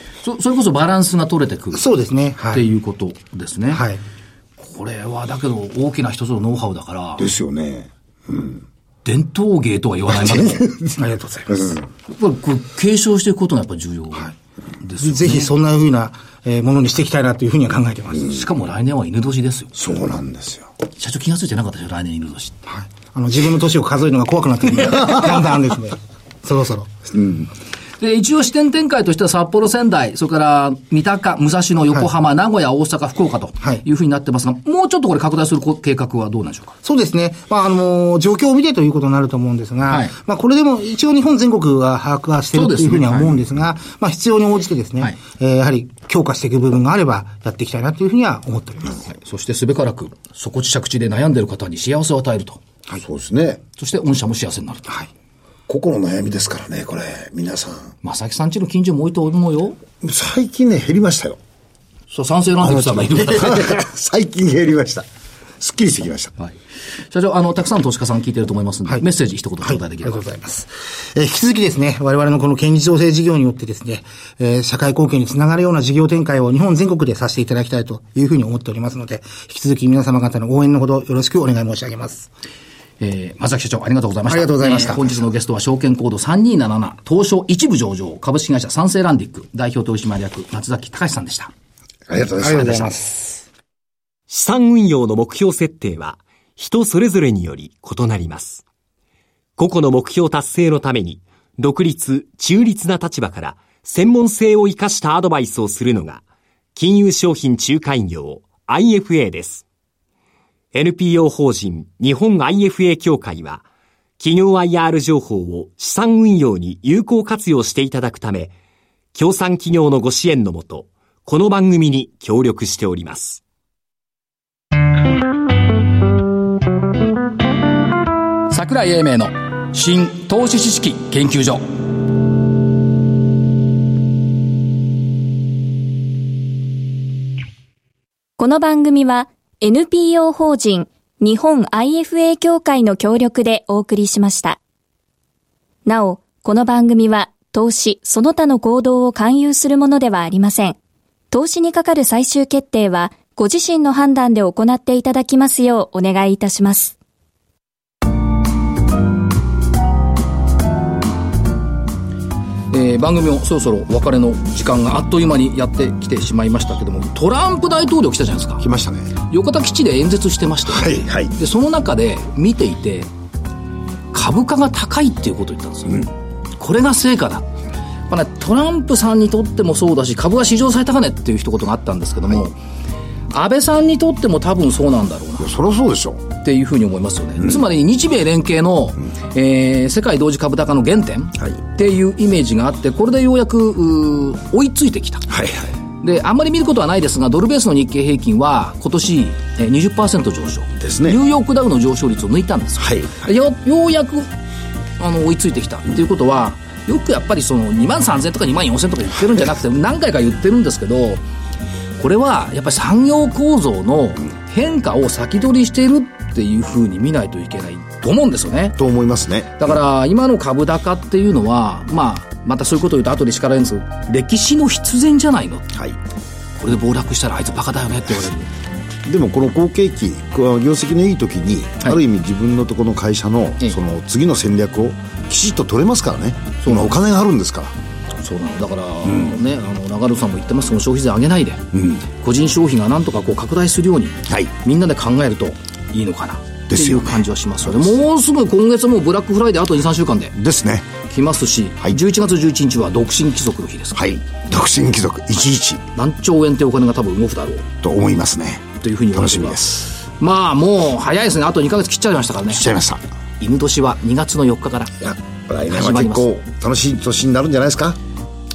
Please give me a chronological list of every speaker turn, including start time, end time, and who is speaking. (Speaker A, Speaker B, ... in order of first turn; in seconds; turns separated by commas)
Speaker A: 0.2-1.8, Speaker B: 1.7-2.6, Speaker A: 2.5-3.8, Speaker B: 3.7-4.0, Speaker A: 4.6-7.3, Speaker C: 7.2-8.6, Speaker A: 9.0-10.7, Speaker C: 10.2-10.9, Speaker B: 10.9-11.8, Speaker A: 12.1-15.5, Speaker B: 15.0-18.4, Speaker A: 18.2-19.7, Speaker C: 19.7-20.7, Speaker A: 21.0-22.6, Speaker B: 22.7-26.9, Speaker C: 27.1-27.4, Speaker A: 28.0-36.7, Speaker B: 36.8-49.0, Speaker A: 39.9-40.1, Speaker A: 42.5-43.4, Speaker A: 49.0-52.6, Speaker C: 52.9-53.6, Speaker A: 53.8-54.9, Speaker C: 55.7-57.9, Speaker A: 58.0-59.8, Speaker C: 60.0-61.4, Speaker A: 62.1-63.8, Speaker C: 62.6-65.0, Speaker C: 65.6-66.3, Speaker A: 67.1-70.2, Speaker B: 69.6-82.3, Speaker A: 83.0-91.5, Speaker B: 84.3-85.2, Speaker C: 92.1-92.9, Speaker B: 92.4-93.4, Speaker D: 94.3-98.6, Speaker D: 99.6-106.2, Speaker D: 106.7-109.6, Speaker D: 110.7-113.6, Speaker D: 114.2-118.5, Speaker D: 119.1-123.4, Speaker A: 128.5-131.7, Speaker E: 138.4-144.6, Speaker E: 145.8-150.8, Speaker E: 151.3-156.9, Speaker A: 162.7-168.6, Speaker C: 168.6-169.1, Speaker A: 169.3-173.1, Speaker C: 170.7-171.3, Speaker A: 174.1-177.5, Speaker A: 178.1-182.6, Speaker A: 183.3-185.5, Speaker C: 185.4-186.2, Speaker A: 186.4-195.3, Speaker C: 195.3-195.7, Speaker A: 196.0-204.3, Speaker C: 200.8-201.2, Speaker C: 202.8-203.3, Speaker A: 205.0-211.2, Speaker A: 212.0-218.8, Speaker C: 218.8-219.7, Speaker A: 219.6-225.7, Speaker A: 226.6-228.5, Speaker C: 229.0-237.7, Speaker A: 236.6-236.9, Speaker A: 238.2-250.3, Speaker C: 241.7-242.0, Speaker C: 246.7-247.2, Speaker C: 250.3-250.9, Speaker A: 251.1-254.0, Speaker C: 253.9-255.8, Speaker A: 255.9-257.7, Speaker C: 257.8-259.9, Speaker A: 258.8-262.7, Speaker C: 262.5-263.0, Speaker A: 263.4-265.0, Speaker C: 265.0-268.0, Speaker A: 265.6-266.3